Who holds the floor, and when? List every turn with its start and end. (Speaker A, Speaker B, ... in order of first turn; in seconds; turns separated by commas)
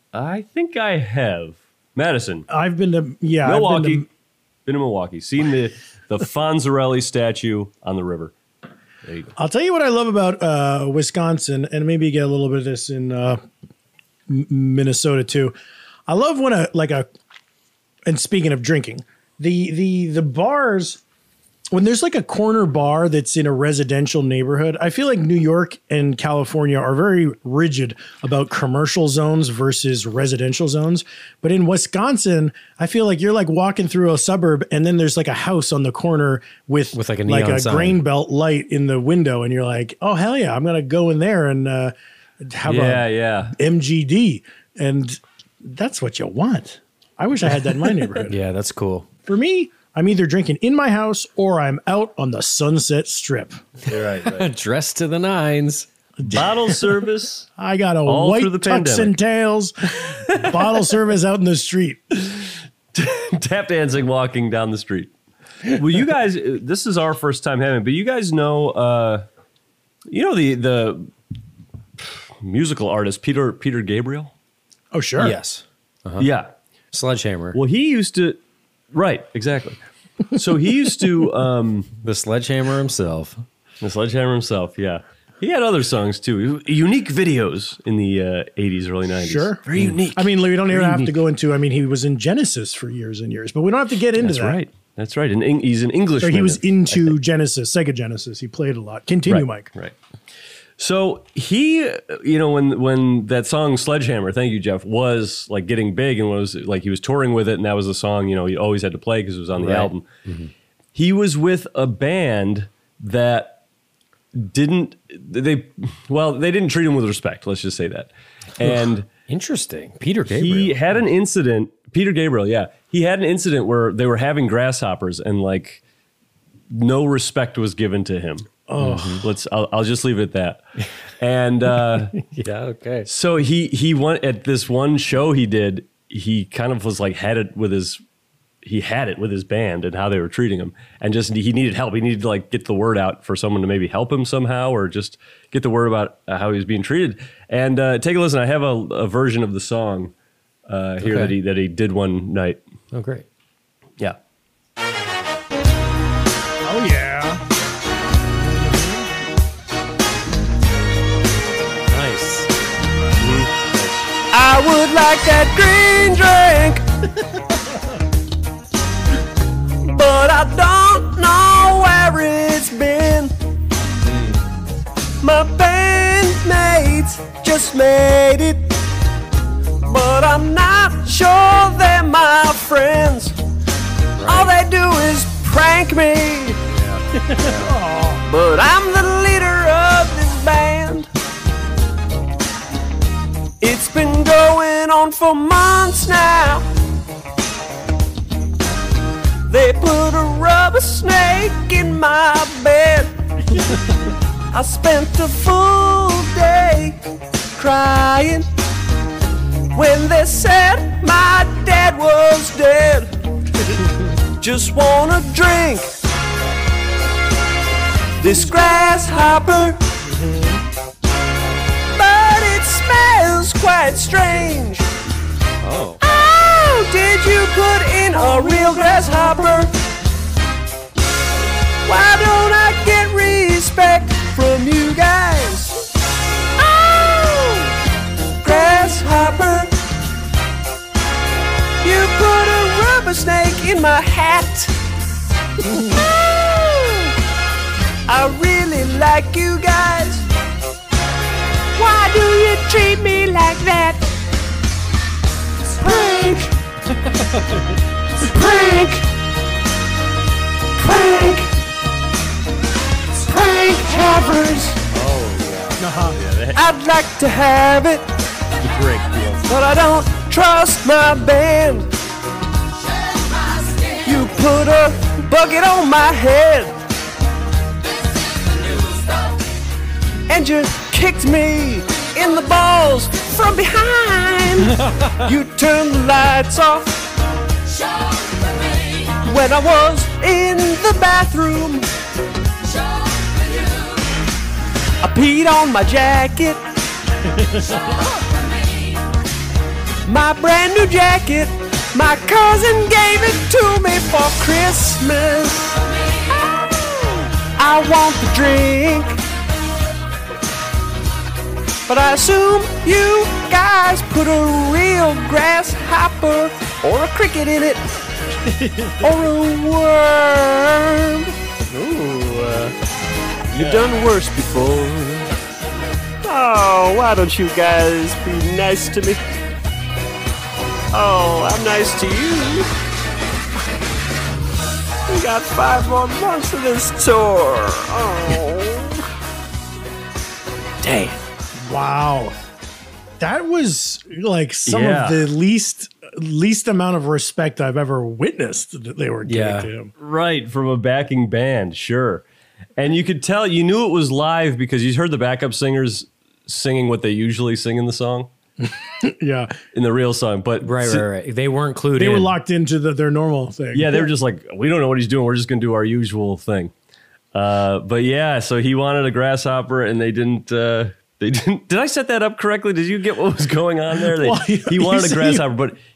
Speaker A: 0.1-2.5, Speaker B: 2.5-4.1, Speaker A: 3.4-4.1, Speaker A: 4.7-8.3, Speaker A: 9.1-9.3, Speaker B: 9.4-13.4, Speaker B: 14.3-15.6, Speaker B: 16.1-17.1, Speaker B: 18.1-21.0, Speaker B: 21.7-48.4, Speaker C: 36.9-38.0, Speaker A: 42.6-43.5, Speaker C: 48.3-49.1, Speaker B: 49.3-53.6, Speaker A: 53.9-54.5, Speaker C: 54.2-56.4, Speaker A: 56.3-57.5, Speaker B: 57.6-62.2, Speaker A: 58.1-59.1, Speaker A: 62.9-65.1, Speaker A: 65.7-69.2, Speaker A: 70.1-71.1, Speaker A: 72.4-74.3, Speaker B: 74.9-75.4, Speaker C: 75.2-76.3, Speaker A: 76.2-76.5, Speaker C: 76.9-77.6, Speaker A: 77.5-78.4, Speaker A: 78.9-81.9, Speaker C: 82.0-83.4, Speaker A: 83.8-91.0, Speaker B: 89.2-94.6, Speaker A: 94.2-97.2, Speaker B: 96.2-99.7, Speaker A: 99.3-100.0, Speaker A: 100.8-110.0, Speaker C: 109.6-110.5, Speaker A: 111.0-113.6, Speaker A: 114.3-119.1, Speaker C: 119.3-120.8, Speaker A: 120.3-125.8, Speaker A: 126.7-128.5, Speaker B: 128.7-129.2, Speaker C: 128.8-129.2, Speaker A: 129.2-130.6, Speaker A: 131.2-132.2, Speaker C: 132.3-133.1, Speaker A: 133.1-138.0, Speaker A: 138.6-150.1, Speaker A: 150.7-152.6, Speaker C: 151.0-151.3, Speaker C: 152.9-153.2, Speaker B: 156.6-157.4, Speaker B: 158.5-159.0, Speaker C: 161.9-162.5, Speaker A: 163.2-163.5, Speaker D: 164.3-166.8, Speaker D: 169.9-172.9, Speaker A: 170.1-170.4, Speaker A: 172.5-173.3, Speaker D: 175.3-178.6, Speaker D: 179.8-183.2, Speaker C: 184.2-184.5, Speaker D: 184.3-186.6, Speaker A: 186.7-187.7, Speaker B: 187.3-188.2, Speaker D: 188.3-191.1, Speaker D: 193.6-196.7, Speaker D: 199.5-203.1, Speaker D: 204.5-207.0, Speaker D: 207.6-208.5, Speaker D: 209.7-213.1, Speaker D: 214.4-215.9, Speaker D: 218.2-219.8, Speaker D: 221.9-224.9, Speaker C: 225.6-226.0, Speaker D: 226.0-229.7, Speaker D: 231.9-235.8, Speaker D: 236.6-237.7, Speaker D: 238.4-239.7, Speaker D: 241.8-244.7, Speaker D: 245.6-247.2, Speaker D: 248.1-250.3, Speaker D: 251.7-254.1, Speaker D: 255.8-256.5, Speaker D: 258.2-259.1, Speaker D: 260.8-261.5, Speaker D: 263.2-264.8, Speaker C: 265.0-265.7, Speaker B: 265.8-266.2, Speaker A: 266.1-266.6, Speaker D: 266.5-268.1, Speaker D: 269.4-271.9, Speaker D: 274.0-276.8, Speaker D: 280.3-287.0, Speaker D: 289.1-291.9, Speaker D: 295.0-296.6, Speaker D: 300.1-305.8, Speaker D: 306.4-306.7, Speaker D: 307.6-309.2, Speaker D: 311.9-317.8, Speaker B: 318.5-319.1, Speaker D: 319.0-320.9, Speaker A: 322.0-322.7, Speaker A: 323.5-325.2, Speaker A: 326.3-329.1, Speaker D: 326.6-328.8, Speaker D: 331.0-332.7, Speaker D: 335.1-338.9, Speaker B: 341.6-342.4, Speaker B: 343.2-349.9, Speaker A: 344.7-345.3, Speaker C: 349.3-349.7, Speaker A: 350.0-352.2, Speaker A: 352.8-358.3, Speaker B: 358.6-359.6, Speaker A: 359.7-361.1, Speaker C: 360.6-362.3, Speaker B: 362.0-364.1, Speaker A: 363.7-366.7, Speaker A: 367.3-375.8, Speaker B: 374.0-375.5